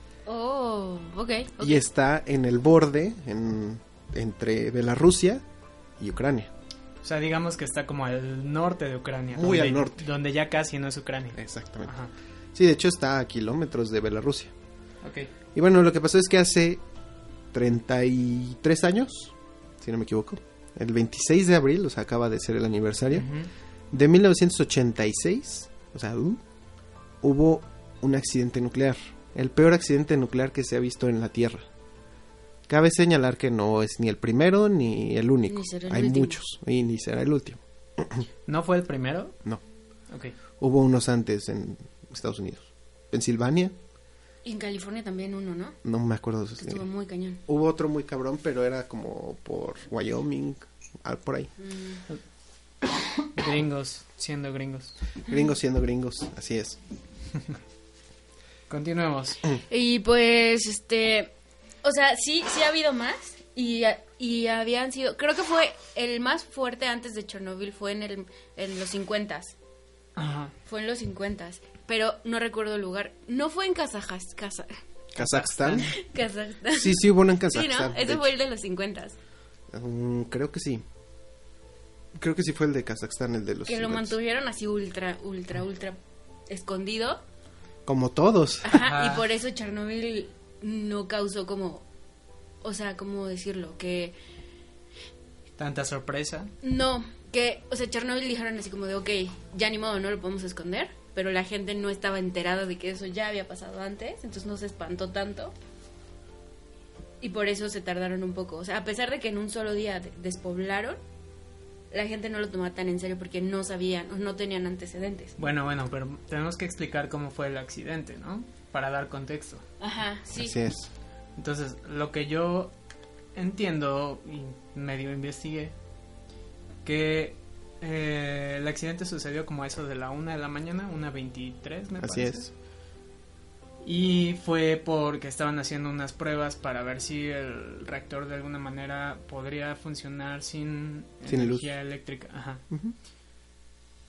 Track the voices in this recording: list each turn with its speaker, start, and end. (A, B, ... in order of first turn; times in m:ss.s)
0:00.3-0:01.9 A
0:01.6-0:05.4 B
0:06.0-0:06.5 B
0:07.0-0:12.1 C
0:09.3-0:10.1 B
0:11.4-0:11.9 B
0:12.5-0:14.5 B
0:15.0-0:15.3 C
0:15.5-0:16.8 B
0:17.5-0:23.3 B
0:23.1-0:23.5 C
0:23.9-0:26.4 B
0:27.2-0:31.7 B
0:32.7-0:38.2 B
0:35.5-0:36.4 A
0:38.5-0:39.4 C
0:40.6-0:43.8 B
0:44.4-0:45.8 A
0:45.8-0:46.8 B
0:46.6-0:47.4 A
0:47.5-0:51.5 B
0:51.6-0:52.0 A
0:53.3-0:55.0 C
0:55.3-0:56.8 B
0:58.7-0:59.4 C
0:59.7-1:01.3 A
1:01.8-1:09.6 A
1:10.2-1:10.5 C
1:10.7-1:14.8 A
1:15.2-1:15.9 B
1:15.2-1:15.9 C
1:15.8-1:19.2 A
1:16.7-1:18.3 B
1:19.7-1:20.8 B
1:22.2-1:24.1 B
1:23.7-1:26.0 A
1:26.5-1:27.2 A
1:27.9-1:28.8 B
1:28.6-1:31.9 A
1:28.7-1:29.3 C
1:32.6-1:34.2 A
1:35.6-1:36.5 C
1:36.6-1:45.5 A
1:47.2-1:51.0 A
1:51.9-1:55.4 A
1:55.4-1:59.6 C
1:59.8-2:00.6 A
2:00.4-2:00.9 B
2:01.4-2:02.7 C
2:03.4-2:05.7 C
2:06.8-2:12.5 C
2:12.0-2:12.5 B
2:13.8-2:22.6 C
2:21.3-2:21.7 B
2:22.7-2:23.0 B